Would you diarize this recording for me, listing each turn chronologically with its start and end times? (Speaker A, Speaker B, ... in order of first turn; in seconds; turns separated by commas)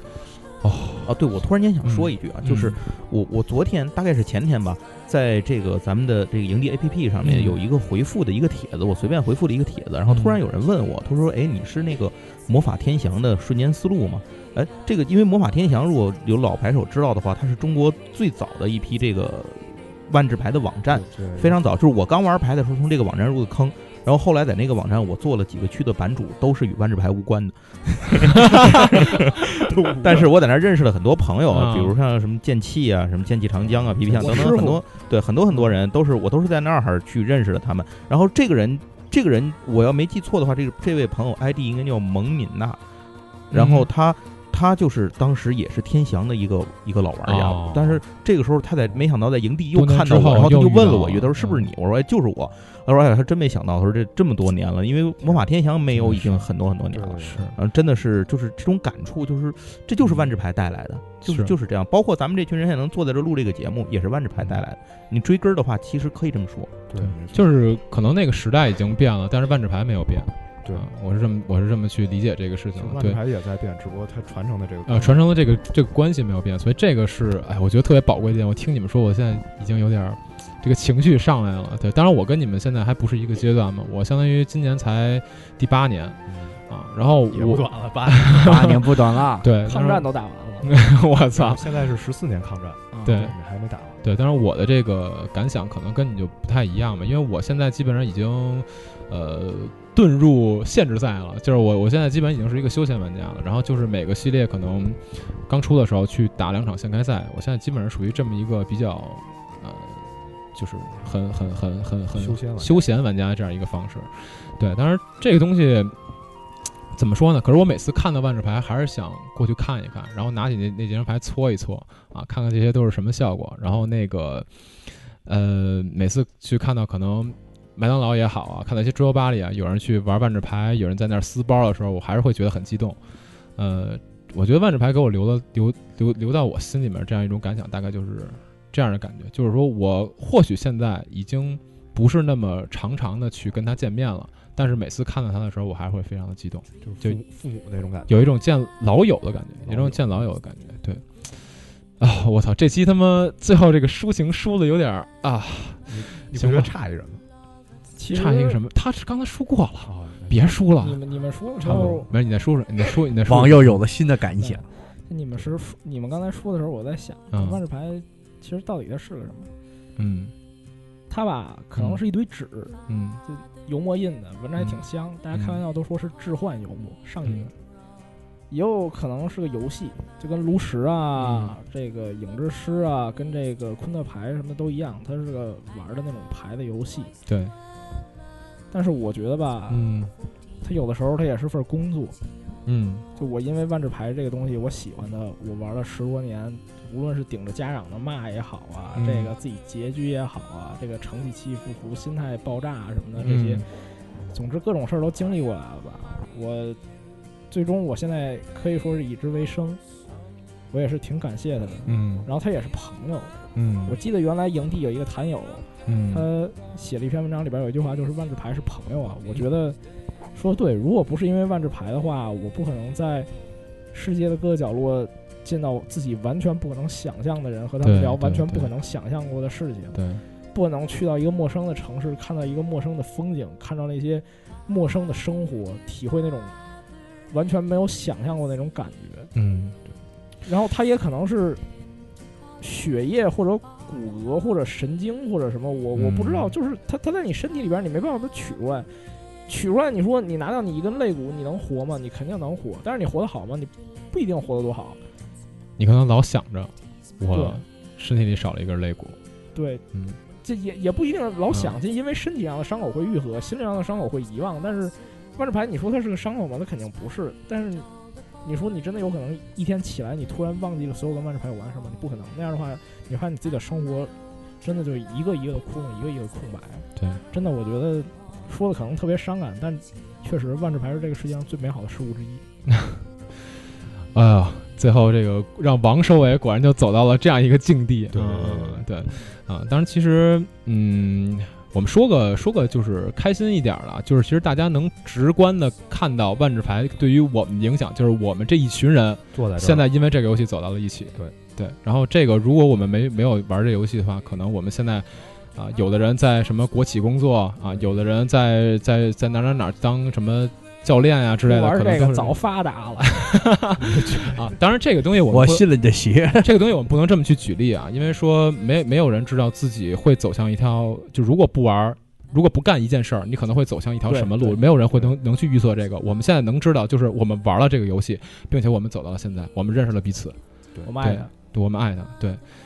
Speaker A: 0.6-1.2, Speaker B: 1.1-42.8, Speaker A: 1.8-2.8, Speaker A: 7.2-7.6, Speaker A: 10.1-10.4, Speaker C: 20.9-21.7, Speaker A: 28.6-28.9, Speaker C: 29.7-30.3, Speaker A: 31.5-32.0, Speaker C: 33.6-34.8, Speaker D: 34.2-34.8, Speaker A: 43.5-43.9, Speaker B: 43.5-66.8, Speaker A: 47.2-48.0, Speaker A: 49.7-51.7, Speaker A: 55.9-56.5, Speaker C: 56.9-57.5, Speaker A: 57.2-57.5, Speaker A: 61.2-61.5, Speaker C: 66.9-67.5, Speaker A: 67.0-73.2, Speaker C: 72.8-75.2, Speaker A: 74.9-90.1, Speaker C: 86.3-86.6, Speaker C: 87.3-88.5, Speaker E: 88.3-89.5, Speaker D: 89.7-90.8, Speaker A: 90.6-91.7, Speaker C: 91.3-94.1, Speaker A: 93.0-93.3, Speaker A: 94.0-116.0, Speaker C: 112.1-112.9, Speaker A: 116.9-124.5, Speaker A: 125.2-133.0, Speaker A: 133.6-147.2, Speaker C: 146.8-148.3, Speaker A: 148.1-151.4, Speaker C: 149.6-150.2, Speaker A: 152.0-156.7, Speaker C: 155.9-157.2, Speaker D: 158.0-158.6, Speaker A: 158.1-161.0, Speaker C: 159.8-160.6, Speaker D: 160.8-162.1, Speaker A: 161.6-163.8, Speaker E: 163.2-164.6, Speaker D: 164.4-169.5, Speaker A: 167.3-167.6, Speaker A: 170.0-170.3, Speaker D: 171.1-177.5, Speaker A: 171.8-172.0, Speaker A: 172.9-173.2, Speaker A: 174.6-175.6, Speaker A: 177.2-177.5, Speaker D: 178.5-187.1, Speaker A: 181.2-181.6, Speaker A: 187.3-187.5, Speaker D: 188.7-189.9, Speaker A: 189.7-190.1, Speaker D: 190.6-192.2, Speaker A: 192.7-193.1, Speaker D: 193.2-203.6, Speaker A: 198.9-199.3, Speaker A: 203.2-203.7, Speaker D: 204.3-206.8, Speaker D: 207.5-209.8, Speaker D: 210.7-219.8, Speaker A: 211.9-212.3, Speaker A: 213.6-214.0, Speaker A: 215.9-216.3, Speaker D: 220.3-223.3, Speaker D: 223.9-230.0, Speaker A: 227.8-228.7, Speaker A: 229.9-230.2, Speaker D: 230.5-236.6, Speaker D: 237.3-239.3, Speaker A: 239.3-239.8, Speaker D: 240.4-241.6, Speaker D: 242.6-248.9, Speaker A: 245.9-246.6, Speaker D: 249.5-255.0, Speaker A: 255.8-259.2, Speaker D: 257.3-257.6, Speaker D: 259.5-259.8, Speaker A: 259.9-260.2, Speaker D: 260.4-267.9, Speaker D: 268.4-282.4, Speaker A: 277.0-277.2, Speaker A: 282.7-283.0, Speaker A: 284.1-312.4, Speaker C: 288.1-288.9, Speaker C: 299.3-299.9, Speaker C: 307.7-308.0, Speaker D: 311.4-313.3, Speaker A: 313.0-315.6, Speaker C: 313.8-314.5, Speaker E: 315.3-316.5, Speaker A: 316.4-330.4, Speaker D: 324.1-324.6, Speaker D: 330.9-331.3, Speaker A: 331.0-332.4